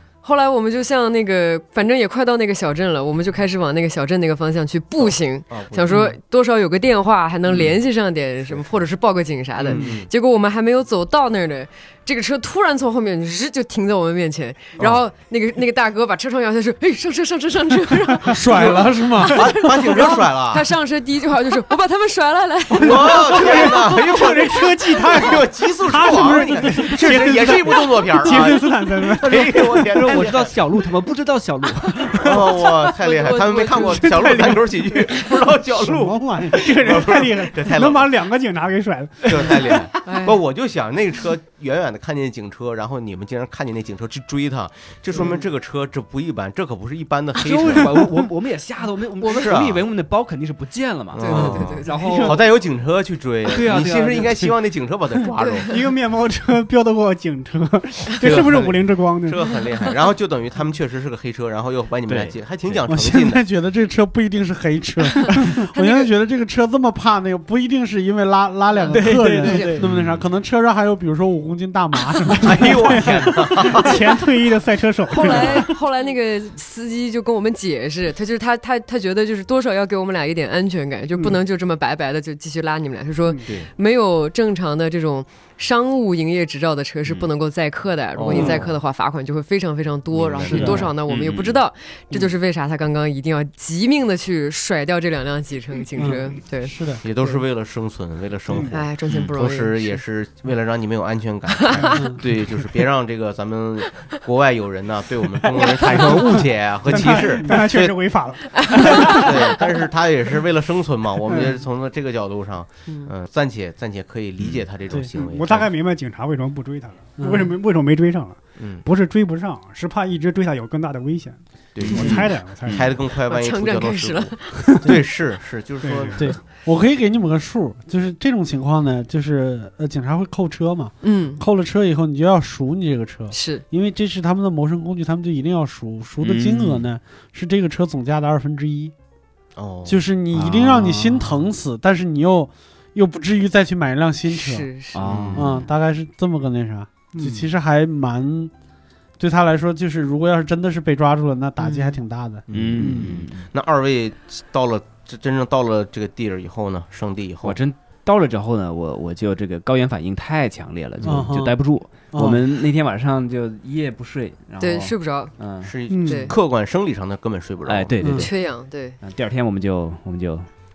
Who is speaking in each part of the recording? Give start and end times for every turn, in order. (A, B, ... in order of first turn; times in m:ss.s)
0:00.2-0:24.6 A
0:05.5-0:06.0 B
0:08.5-0:08.8 B
0:09.7-0:10.1 B
0:18.3-0:19.5 C
0:19.3-0:20.6 B
0:22.7-0:30.6 B
0:23.0-0:30.1 D
0:26.1-0:26.7 C
0:29.8-0:32.9 E
0:32.2-0:38.1 B
0:33.0-0:34.4 A
0:33.7-0:34.7 D
0:35.7-0:36.6 C
0:36.5-0:39.9 D
0:39.2-0:48.1 B
0:40.0-0:40.4 A
0:47.4-0:52.5 E
0:49.2-0:49.5 A
0:49.4-0:49.8 B
0:51.1-0:55.7 B
0:51.2-0:52.4 A
0:51.3-0:51.7 C
0:53.5-0:54.6 E
0:55.4-0:55.7 A
0:55.7-0:59.4 D
0:58.2-1:03.4 B
1:02.1-1:02.7 E
1:02.9-1:13.4 C
1:05.1-1:06.1 A
1:08.7-1:09.8 A
1:08.9-1:10.1 E
1:12.4-1:14.2 B
1:12.6-1:15.7 D
1:15.1-1:37.4 A
1:28.2-1:28.7 B
1:30.1-1:30.9 B
1:30.5-1:30.9 C
1:30.6-1:31.6 E
1:36.0-1:37.0 C
1:37.0-1:48.0 B
1:38.5-1:38.7 D
1:38.7-1:40.0 A
1:41.6-1:42.0 A
1:41.7-1:42.0 D
1:41.9-1:42.2 C
1:45.6-1:46.1 A
1:45.8-1:49.6 D
1:46.9-1:47.5 C
1:48.6-1:49.6 A
1:48.6-1:55.7 B
1:51.3-1:51.6 D
1:52.9-1:53.1 A
1:55.1-2:03.0 D
1:57.2-1:57.5 C
1:58.6-1:58.8 B
2:01.7-2:06.3 B
2:01.8-2:02.8 E
2:01.9-2:02.2 C
2:03.2-2:04.7 A
2:05.8-2:06.4 D
2:06.1-2:18.9 C
2:11.0-2:11.4 A
2:13.3-2:13.6 A
2:16.2-2:16.9 E
2:19.6-2:20.0 B
2:19.8-2:24.7 C
2:20.3-2:21.4 E
2:24.3-2:25.0 A
2:24.9-2:25.7 E
2:25.0-2:25.6 B
2:25.3-2:28.5 C
2:27.1-2:27.5 D
2:29.2-2:33.1 C
2:31.6-2:32.0 A
2:32.5-2:33.5 E
2:32.5-2:37.6 B
2:37.4-2:45.7 E
2:41.0-2:41.6 C
2:42.1-2:42.4 C
2:44.6-2:45.4 A
2:45.6-2:48.0 B
2:45.9-2:46.4 A
2:45.9-2:46.2 D
2:47.6-2:50.5 E
2:48.0-2:48.3 C
2:48.1-2:49.0 A